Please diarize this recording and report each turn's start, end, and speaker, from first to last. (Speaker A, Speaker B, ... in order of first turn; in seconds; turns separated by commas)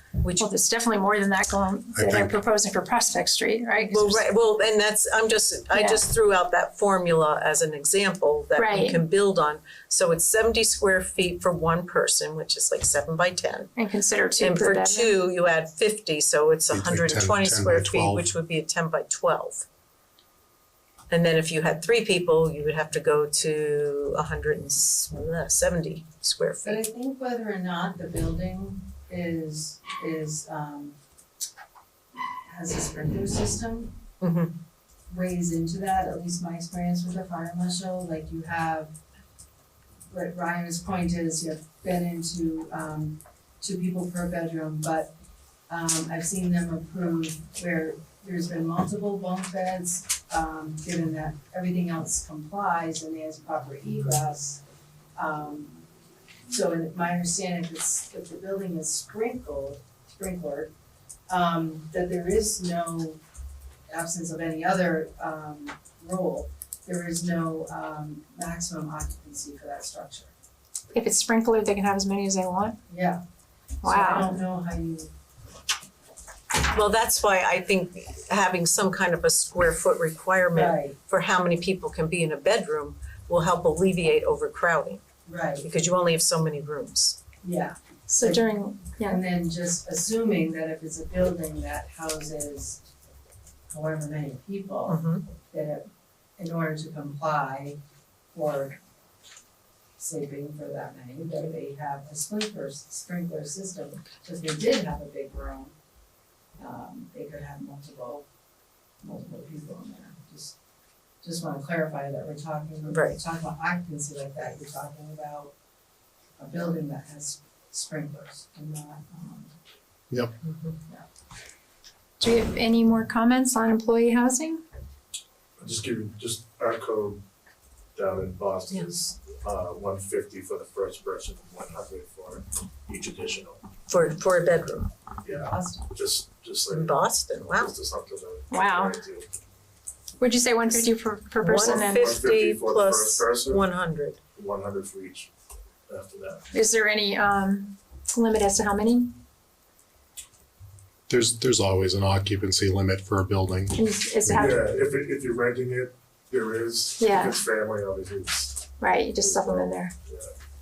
Speaker A: 0.2-0.5, Speaker B: 0.4-4.3, Speaker C: 2.0-2.4, Speaker A: 3.8-13.7, Speaker B: 5.7-6.0, Speaker B: 8.6-9.0, Speaker B: 13.8-15.2, Speaker A: 14.4-19.7, Speaker C: 16.7-18.3, Speaker A: 21.1-26.8, Speaker D: 26.6-31.0, Speaker D: 32.5-34.0, Speaker A: 34.2-34.5, Speaker D: 35.1-38.9, Speaker D: 40.1-45.1, Speaker D: 45.7-54.6, Speaker D: 55.2-55.8, Speaker D: 56.5-60.7, Speaker D: 61.3-63.2, Speaker D: 63.9-70.3, Speaker B: 70.9-72.8, Speaker D: 72.9-73.2, Speaker D: 73.8-75.1, Speaker B: 73.8-74.3, Speaker A: 76.7-85.0, Speaker D: 80.5-81.0, Speaker D: 85.3-85.7, Speaker A: 85.6-87.2, Speaker D: 87.4-88.5, Speaker B: 88.1-89.2, Speaker D: 89.0-92.8, Speaker D: 93.7-95.9, Speaker A: 94.9-95.2, Speaker D: 96.4-97.8, Speaker D: 98.3-98.8, Speaker D: 100.0-105.7, Speaker D: 106.6-108.2, Speaker D: 109.0-110.6, Speaker D: 111.2-115.5, Speaker A: 112.9-113.2, Speaker D: 116.4-119.5, Speaker A: 120.4-120.8, Speaker B: 122.2-124.6, Speaker E: 125.6-127.2, Speaker E: 128.0-133.7, Speaker A: 133.9-134.9, Speaker E: 135.2-139.3, Speaker D: 135.4-135.9, Speaker A: 136.7-137.7, Speaker B: 138.5-139.0, Speaker B: 140.2-142.2, Speaker A: 141.4-144.2, Speaker E: 141.5-143.7, Speaker E: 144.3-145.3, Speaker E: 145.9-146.4, Speaker B: 146.5-149.2, Speaker C: 151.1-153.8, Speaker B: 153.7-154.6, Speaker E: 154.3-160.3, Speaker B: 157.0-157.4, Speaker B: 158.8-159.9